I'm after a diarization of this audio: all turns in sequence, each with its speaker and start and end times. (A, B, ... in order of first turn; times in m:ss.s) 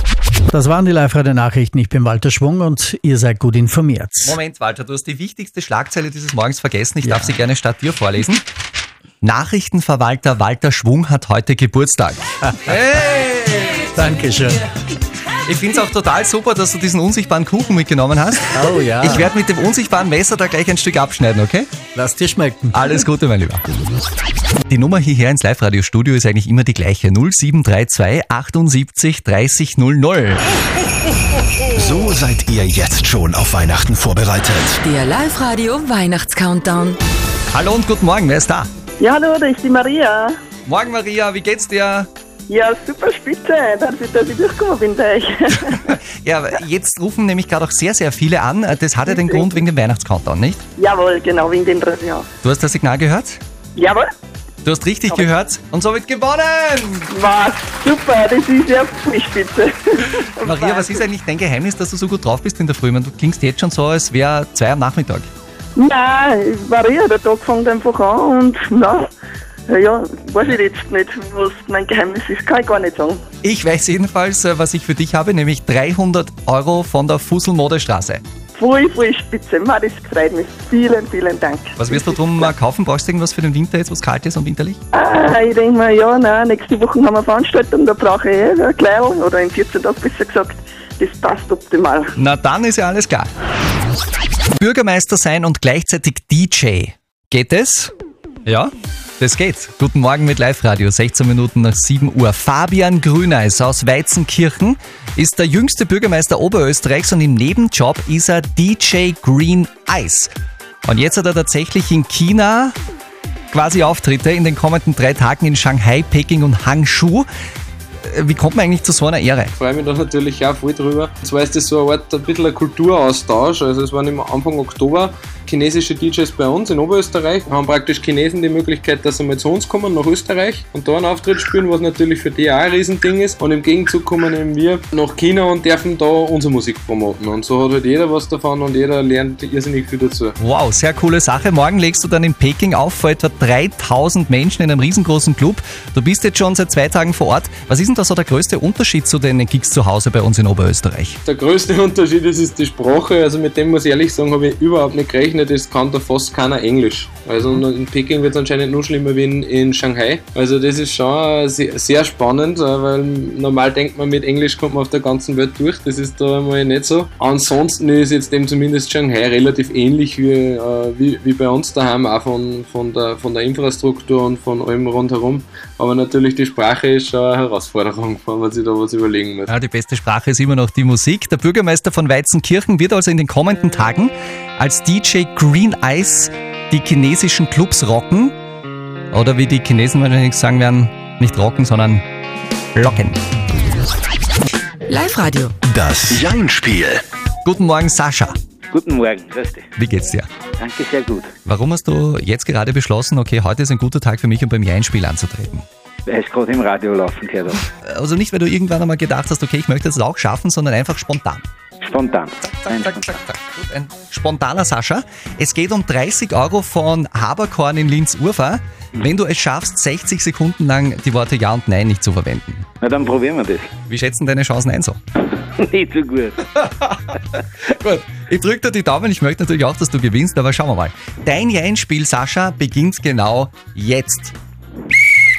0:00.5-0:04.4 A
0:04.2-0:08.4 B
0:07.0-0:07.3 A
0:09.2-0:13.8 B
0:14.0-0:14.6 A
0:15.4-0:21.7 B
0:18.5-0:19.3 A
0:22.0-0:23.0 A
0:22.7-0:23.6 B
0:24.7-0:30.4 B
0:31.7-0:34.8 C
0:34.8-0:37.0 D
0:37.5-0:38.7 B
0:39.0-0:40.4 E
0:40.7-0:42.1 B
0:42.5-0:45.9 E
0:46.2-0:50.6 B
0:49.1-0:49.5 E
0:50.8-0:52.3 E
0:52.4-0:53.4 B
0:53.8-0:54.0 E
0:54.6-0:57.1 B
0:57.1-1:01.0 E
1:00.4-1:05.3 B
1:05.8-1:09.1 E
1:09.7-1:13.2 E
1:13.4-1:18.2 B
1:18.6-1:22.5 E
1:21.8-1:24.8 B
1:24.9-1:32.1 E
1:32.2-1:33.3 B
1:34.6-1:37.9 B
1:38.5-1:52.8 B
1:53.5-1:57.3 B
1:58.0-1:59.5 B
1:59.6-2:20.4 F
2:20.4-2:31.2 B
2:31.2-2:59.5 F
2:59.5-3:08.4 B
3:09.1-3:12.0 B
3:12.8-3:13.2 B
3:14.9-3:15.5 D
3:15.6-3:17.0 C
3:17.4-3:18.4 B
3:18.7-3:19.7 G
3:19.8-3:20.3 B
3:20.6-3:21.3 G
3:21.5-3:25.6 B
3:26.1-3:27.6 G
3:27.8-3:31.4 B
3:31.8-3:33.1 G
3:32.4-3:42.7 B
3:42.8-3:43.7 G
3:43.9-3:45.0 B
3:45.6-3:46.4 G
3:47.6-3:54.3 B